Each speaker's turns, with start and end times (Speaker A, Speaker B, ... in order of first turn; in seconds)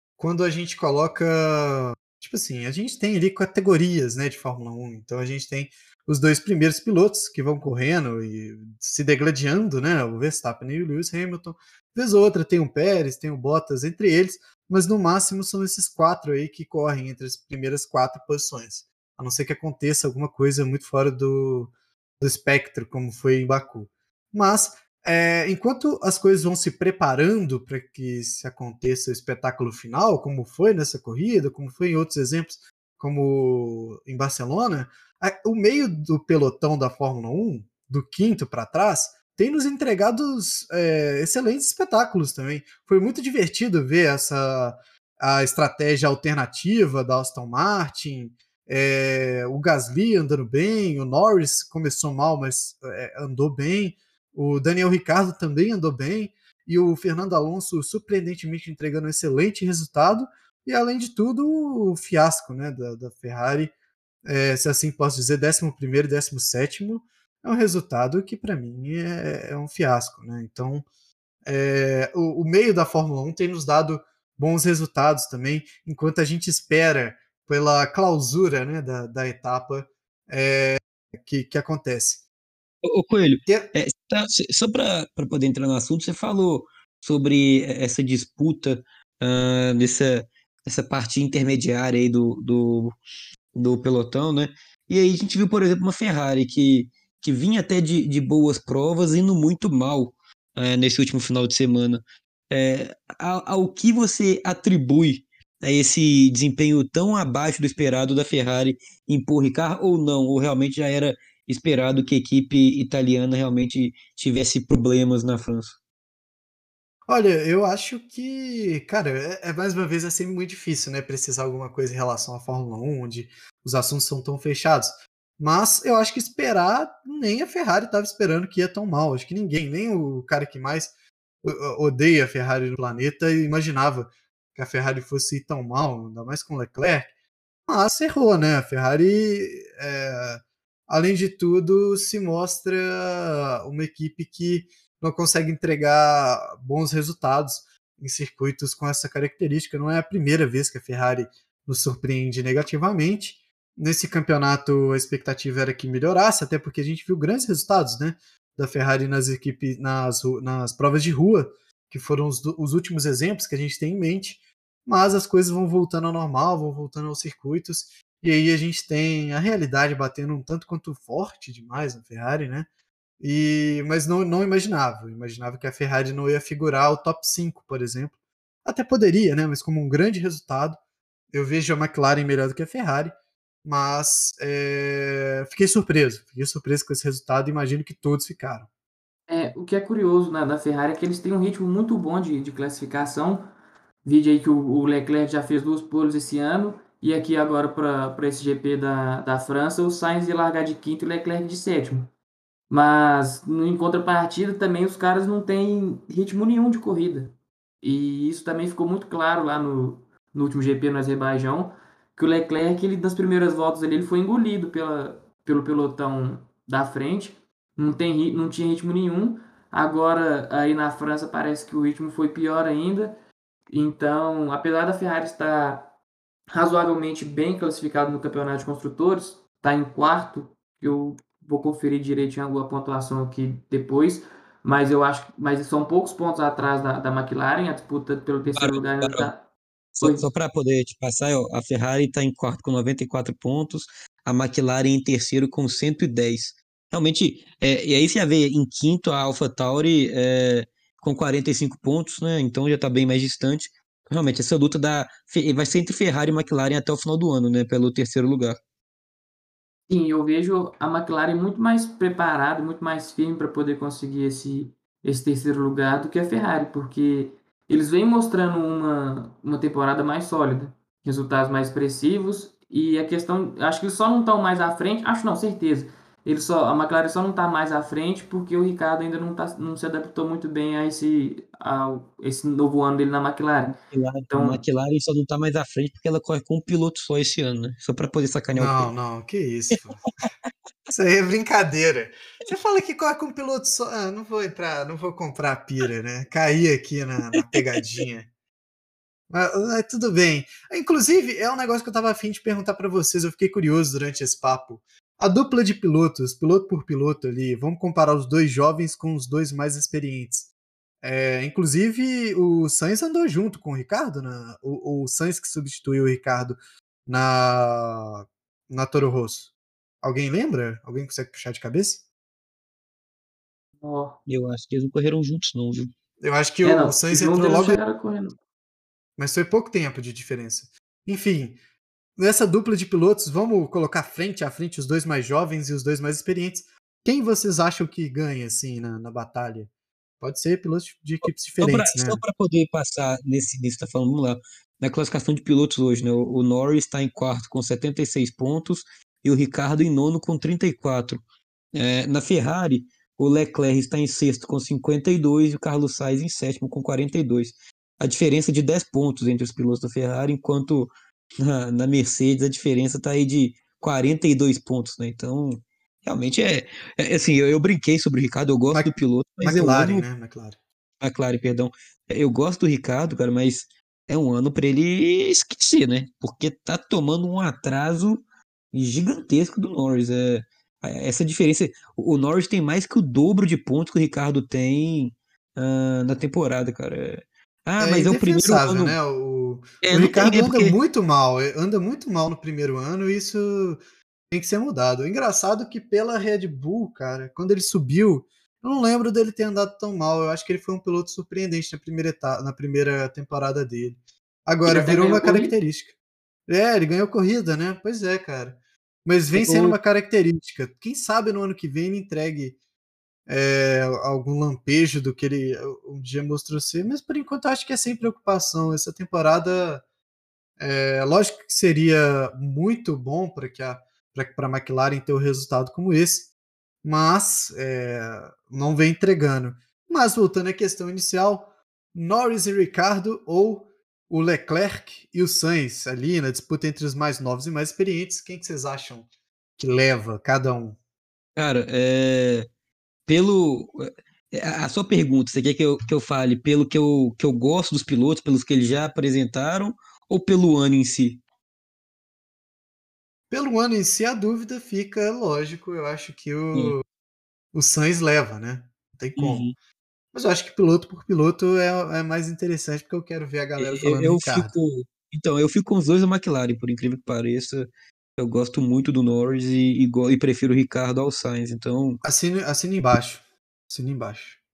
Speaker A: 0.2-63.7, 64.2-70.8, 71.5-82.2, 117.1-137.1, 137.7-172.7, 173.2-180.8, 181.3-183.1, 183.6-188.7, 288.6-290.3, 290.9-298.3, 299.3-310.5, 311.0-322.0, 326.2-327.8, 329.2-331.6, 332.2-339.7, 340.2-342.2, 368.7-370.6, 387.8-393.8, 394.3-405.9, 406.5-412.6, 413.3-419.8, 420.6-426.3, 426.8-439.1, 439.6-440.8, 453.3-456.8, 457.5-459.4, 460.1-464.5, 472.0-474.4
Speaker B: 82.8-92.9, 93.5-115.8, 238.6-239.3, 239.9-258.6, 283.7-288.9, 297.3-298.0, 324.3-325.9, 341.2-351.2, 351.7-370.1, 371.0-378.2, 378.7-389.0, 389.8-390.8, 409.3-409.8, 441.4-442.4, 443.1-451.2, 459.2-459.5, 463.6-467.6, 468.2-472.0
Speaker C: 189.3-193.5, 194.0-202.1, 202.7-223.1, 223.7-225.9, 226.5-239.5, 259.9-283.7, 284.3-284.6, 323.8-324.2, 326.6-328.4, 404.6-405.6